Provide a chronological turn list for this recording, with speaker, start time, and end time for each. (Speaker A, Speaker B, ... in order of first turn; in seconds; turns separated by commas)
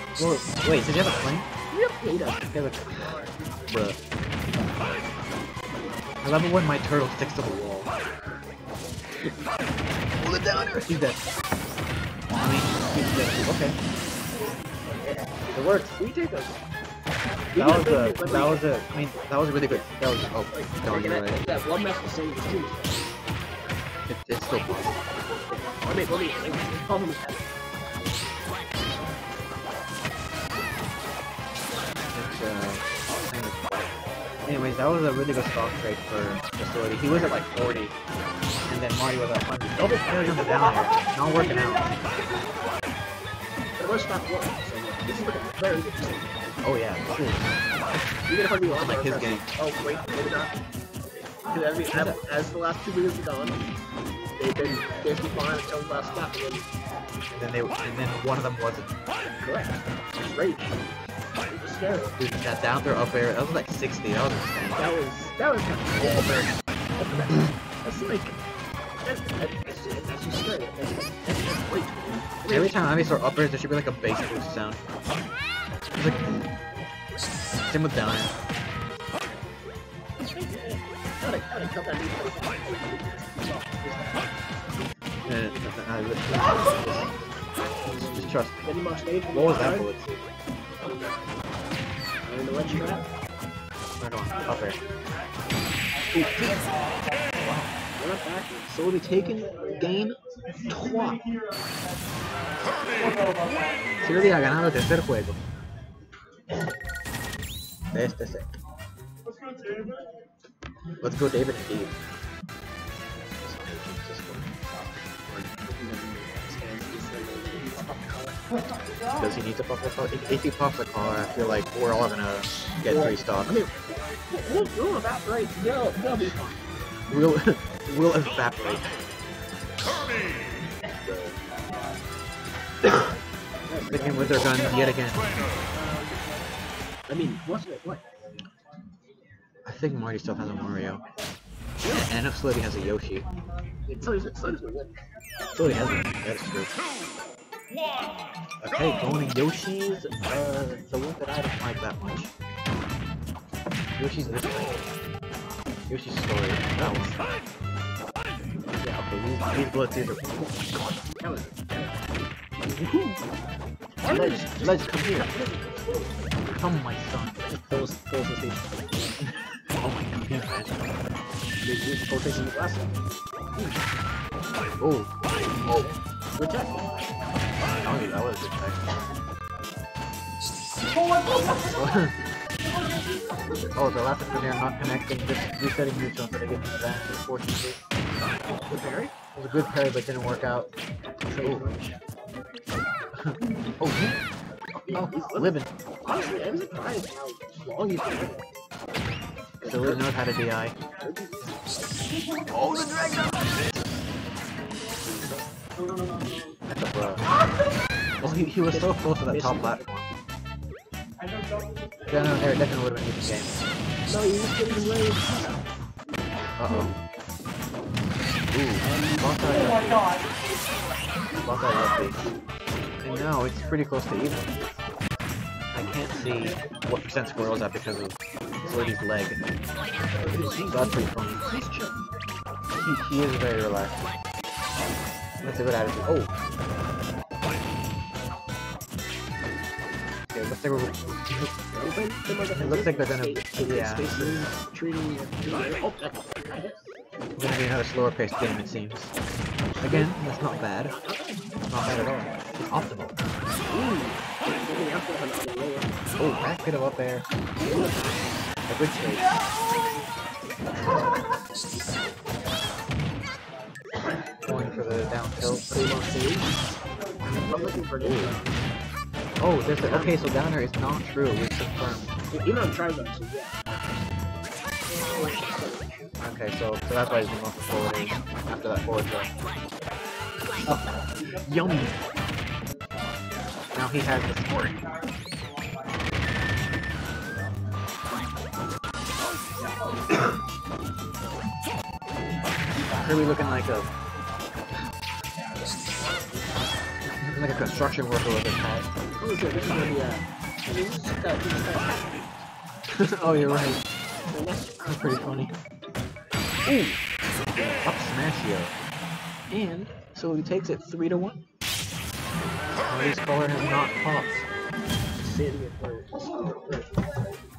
Speaker A: 0.2-1.5, Speaker B: 1.7-2.5, Speaker A: 2.5-4.0, Speaker A: 6.2-7.9, Speaker A: 10.3-11.2, Speaker A: 12.4-13.8, Speaker A: 15.5-16.0, Speaker B: 16.0-16.6, Speaker B: 17.5-18.7, Speaker A: 17.6-21.4, Speaker B: 20.5-23.0, Speaker A: 24.1-25.0, Speaker B: 25.8-27.5, Speaker A: 32.1-33.9, Speaker A: 34.5-37.9, Speaker A: 38.7-41.9, Speaker B: 43.8-46.3, Speaker A: 46.6-47.6, Speaker B: 48.3-50.5, Speaker A: 48.6-49.5, Speaker B: 51.5-53.6, Speaker A: 51.9-52.2, Speaker B: 54.4-56.7, Speaker A: 57.3-58.9, Speaker B: 59.4-60.8, Speaker B: 61.4-62.2, Speaker A: 62.2-64.8, Speaker B: 64.8-66.4, Speaker A: 66.0-66.5, Speaker B: 67.0-68.3, Speaker B: 69.0-72.8, Speaker A: 72.5-74.8, Speaker A: 76.0-76.4, Speaker A: 77.7-78.3, Speaker B: 80.2-84.3, Speaker A: 85.3-87.1, Speaker B: 87.9-89.9, Speaker A: 87.9-88.7, Speaker A: 89.3-90.2, Speaker B: 90.8-91.2, Speaker B: 92.2-93.1, Speaker A: 92.5-92.9, Speaker A: 94.0-94.8, Speaker A: 96.1-96.6, Speaker A: 97.4-97.7, Speaker B: 98.0-98.8, Speaker A: 98.7-100.2, Speaker A: 100.7-101.2, Speaker A: 104.0-105.4, Speaker A: 107.9-108.5, Speaker A: 111.0-112.0, Speaker A: 113.4-114.5, Speaker B: 115.3-118.4, Speaker A: 119.2-123.6, Speaker B: 122.9-123.8, Speaker B: 124.3-126.5, Speaker A: 127.1-128.8, Speaker B: 131.1-131.3, Speaker B: 133.7-134.6, Speaker A: 133.9-135.2, Speaker B: 135.8-136.2, Speaker B: 137.1-138.0, Speaker A: 139.7-141.0, Speaker A: 141.8-143.3, Speaker B: 143.9-144.9, Speaker A: 145.6-146.7, Speaker A: 148.6-152.3, Speaker A: 154.0-154.8, Speaker A: 155.9-157.2, Speaker B: 156.8-157.2, Speaker A: 158.8-160.4, Speaker B: 161.1-162.0, Speaker B: 162.6-163.2, Speaker B: 164.0-166.2, Speaker A: 164.1-165.3, Speaker A: 166.5-167.5, Speaker B: 167.5-169.1, Speaker A: 169.2-170.8, Speaker B: 171.6-172.9, Speaker A: 174.8-175.1, Speaker A: 175.6-176.0, Speaker B: 176.4-176.9, Speaker A: 177.8-179.0, Speaker A: 181.8-182.2, Speaker A: 183.8-187.9, Speaker B: 188.7-189.1, Speaker A: 189.3-190.7, Speaker B: 191.3-192.0, Speaker A: 191.4-191.7, Speaker A: 193.2-194.2, Speaker A: 194.8-195.7, Speaker B: 194.9-198.4, Speaker B: 199.6-200.0, Speaker A: 199.7-200.8, Speaker B: 201.0-201.6, Speaker B: 202.6-203.7, Speaker B: 205.0-205.5, Speaker A: 206.7-207.2, Speaker B: 208.2-209.9, Speaker A: 208.2-210.1, Speaker A: 212.1-213.6, Speaker B: 214.1-215.6, Speaker A: 216.6-216.9, Speaker A: 218.5-220.1, Speaker B: 218.8-219.6, Speaker A: 221.4-222.3, Speaker A: 223.0-224.5, Speaker A: 225.7-229.4, Speaker B: 230.2-232.0, Speaker A: 230.7-231.4, Speaker A: 232.8-234.1, Speaker A: 235.4-236.3, Speaker A: 240.3-241.5, Speaker B: 241.7-246.9, Speaker A: 242.6-244.5, Speaker A: 247.4-249.1, Speaker A: 249.8-250.9, Speaker B: 250.8-251.4, Speaker A: 251.7-253.2, Speaker B: 253.7-255.9, Speaker A: 256.2-257.3, Speaker B: 257.6-258.4, Speaker A: 258.7-259.3, Speaker A: 264.4-265.7, Speaker B: 265.7-266.6, Speaker B: 267.3-268.5, Speaker A: 268.0-268.4, Speaker A: 269.4-272.1, Speaker B: 269.7-270.2, Speaker B: 272.3-273.6, Speaker B: 274.9-276.0, Speaker A: 276.2-279.3, Speaker A: 280.6-282.0, Speaker A: 283.7-284.8, Speaker A: 292.9-293.9, Speaker A: 297.1-298.9, Speaker B: 299.2-302.3, Speaker A: 302.9-303.8, Speaker B: 304.3-304.7, Speaker A: 304.8-305.6, Speaker A: 306.7-307.0, Speaker A: 307.6-308.8, Speaker A: 309.5-311.4, Speaker A: 312.9-314.5, Speaker B: 315.2-317.0